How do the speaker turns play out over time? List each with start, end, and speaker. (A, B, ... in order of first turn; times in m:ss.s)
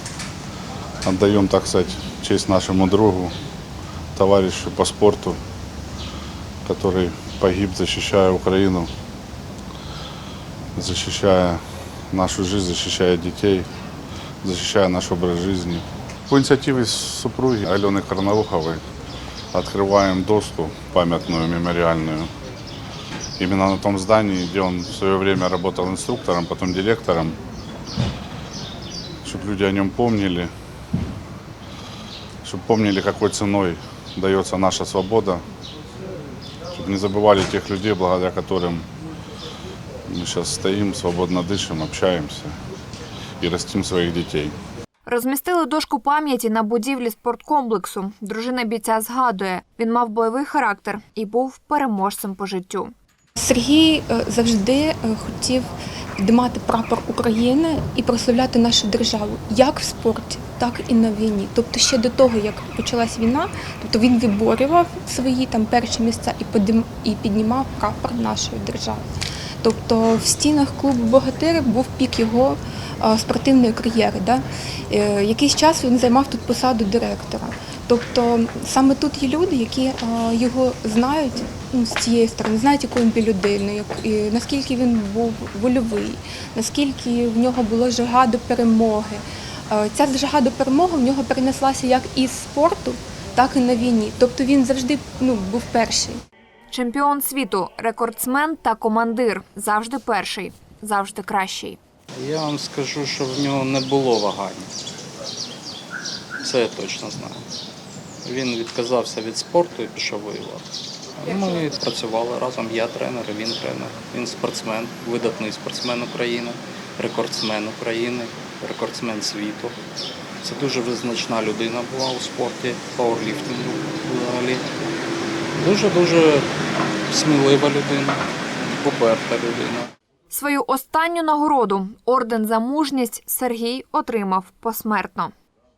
0:01.0-0:03.3 A
0:04.2-0:05.4 A
0:06.6-0:08.9 A
0:10.7-0:11.6 A
0:12.1-0:13.7 A
0:14.4-0:18.8 A
0:19.5-0:22.3 A
0:23.4-0:27.4 A
0:29.2-0:30.5 A
0:32.4-0:35.4 A
0:36.7-0:38.8 A
0:40.0-0:42.6 A
0:43.4-0:44.6 A
0:45.0-0:52.9 B
0:53.4-1:09.0 C
1:09.6-1:36.2 C
1:36.7-1:41.8 B
1:42.2-1:44.7 D
1:46.4-1:47.4 D
1:48.2-1:59.8 D
2:00.4-2:04.6 D
2:05.6-2:06.5 D
2:07.1-2:09.9 D
2:10.3-2:15.3 B